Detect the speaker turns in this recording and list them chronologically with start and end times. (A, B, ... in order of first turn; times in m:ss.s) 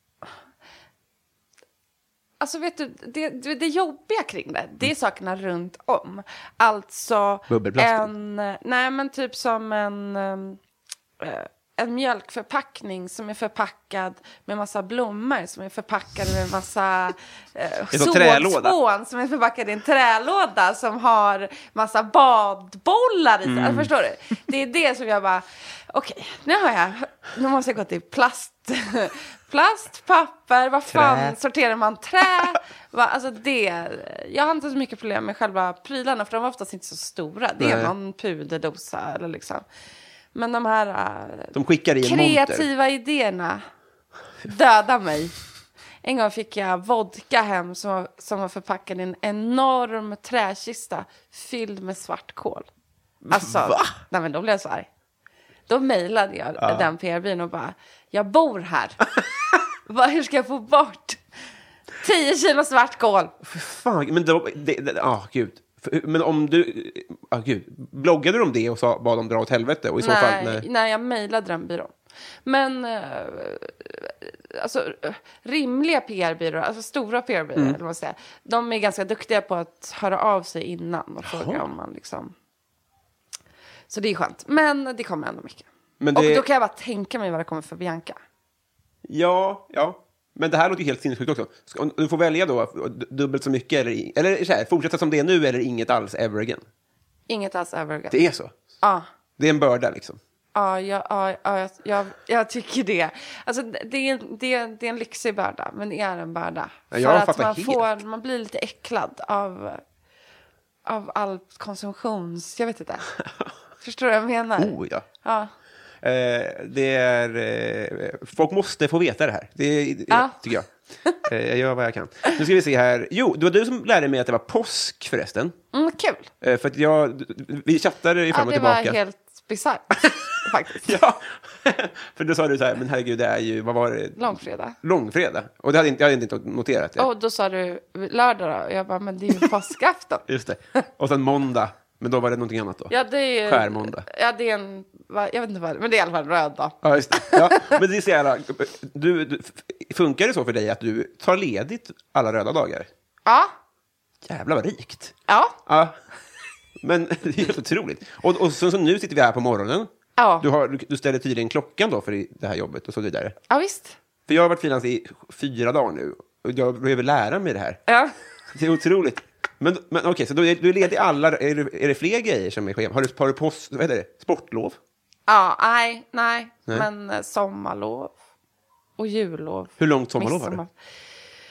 0:02.4-0:10.6 A
0:07.5-0:08.1 B
0:11.2-0:39.6 A
0:17.9-0:18.8 B
0:23.4-0:23.9 B
0:30.9-0:31.3 B
0:37.6-0:37.9 B
0:40.3-0:43.6 A
0:41.5-0:42.6 B
0:44.4-0:45.3 A
0:46.0-0:52.7 A
0:53.2-0:54.0 B
0:53.3-0:54.9 A
0:55.7-0:59.1 A
0:56.6-0:56.9 B
0:59.8-1:01.2 A
1:02.0-1:03.3 A
1:03.4-1:10.6 B
1:10.0-1:22.3 A
1:21.2-1:21.6 B
1:23.9-1:28.2 A
1:26.0-1:26.4 B
1:29.0-1:36.6 B
1:37.3-1:38.2 A
1:38.1-1:38.5 B
1:39.4-1:40.2 B
1:40.5-1:49.8 A
1:46.9-1:47.9 B
1:50.8-1:53.1 A
1:53.8-1:55.5 A
1:54.6-1:55.0 B
1:56.0-2:00.7 B
2:00.1-2:00.4 A
2:01.2-2:05.6 B
2:05.7-2:06.3 A
2:06.4-2:09.0 B
2:08.3-2:10.9 A
2:10.8-2:14.2 B
2:14.2-2:14.8 A
2:14.8-2:17.1 B
2:17.0-2:20.2 A
2:20.3-2:22.9 B
2:22.9-2:27.8 A
2:23.4-2:24.0 B
2:26.8-2:32.9 B
2:33.2-2:33.5 A
2:34.2-2:36.0 B
2:35.3-2:35.6 A
2:36.8-2:43.3 B
2:40.2-2:40.4 A
2:43.5-2:44.0 A
2:44.3-2:47.8 B
2:47.9-2:48.1 A
2:48.5-2:54.8 B
2:55.3-2:58.1 A
2:59.0-3:00.7 A
2:59.8-3:00.6 B